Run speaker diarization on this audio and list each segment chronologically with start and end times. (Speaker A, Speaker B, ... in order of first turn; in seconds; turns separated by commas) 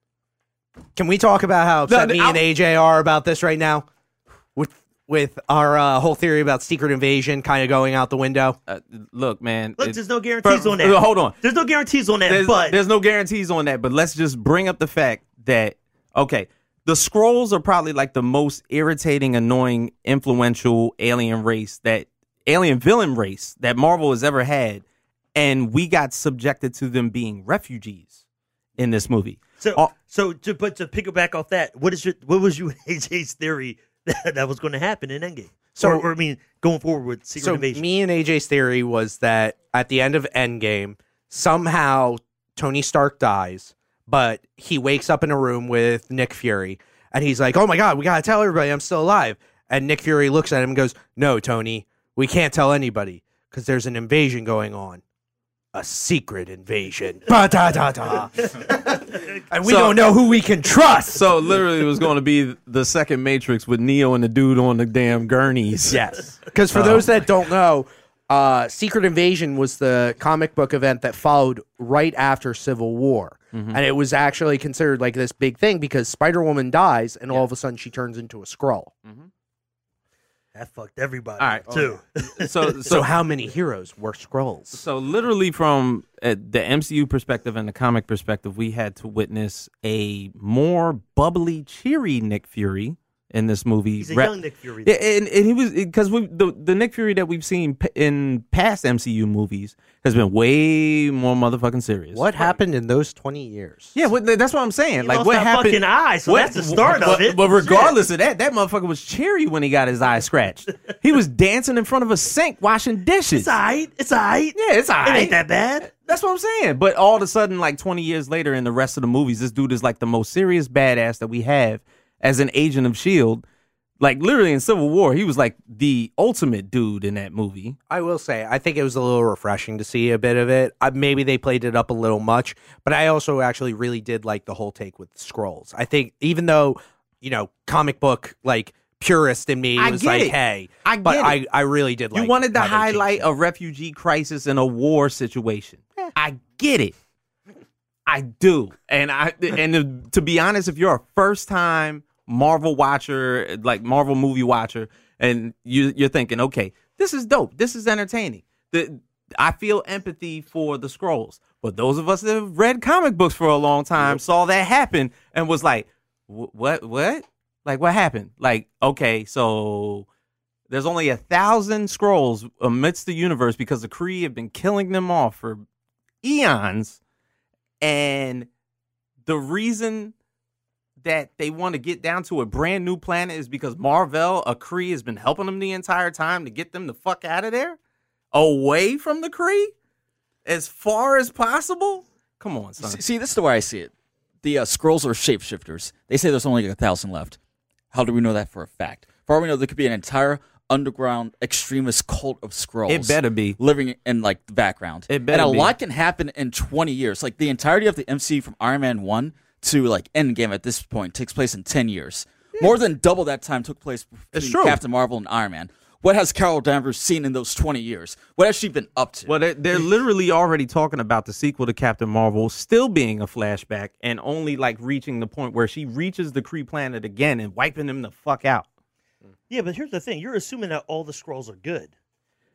Speaker A: 0.9-3.9, Speaker B: 1.9-2.4, Speaker A: 4.5-8.6, Speaker B: 8.7-11.3, Speaker C: 9.8-12.8, Speaker B: 12.3-24.8, Speaker B: 25.3-28.2, Speaker B: 28.8-29.9, Speaker C: 29.6-37.9, Speaker A: 35.7-36.1, Speaker A: 37.4-55.0, Speaker A: 55.7-61.3, Speaker B: 59.6-60.1, Speaker B: 61.1-66.0, Speaker A: 65.9-78.9, Speaker B: 66.7-67.2, Speaker B: 73.5-73.8, Speaker C: 80.5-83.0, Speaker B: 81.4-83.0, Speaker A: 82.9-84.8, Speaker B: 84.7-102.3, Speaker C: 94.0-95.0, Speaker A: 102.1-103.9, Speaker B: 103.9-113.5, Speaker C: 105.0-108.0, Speaker C: 113.3-115.9, Speaker B: 114.5-115.4, Speaker B: 115.9-123.4, Speaker B: 124.0-127.8, Speaker A: 127.9-143.3, Speaker B: 139.8-141.4, Speaker B: 142.1-146.9, Speaker B: 148.1-170.1, Speaker B: 170.7-175.6, Speaker B: 176.2-177.0, Speaker B: 177.8-178.5, Speaker B: 179.2-180.1, Speaker B: 181.0-187.8, Speaker B: 188.3-189.7, Speaker B: 190.4-193.0, Speaker D: 192.8-193.9, Speaker D: 194.4-197.4, Speaker D: 197.9-219.4, Speaker B: 202.9-203.6, Speaker B: 205.1-205.7, Speaker B: 214.3-214.8, Speaker B: 219.3-228.7, Speaker C: 229.5-231.9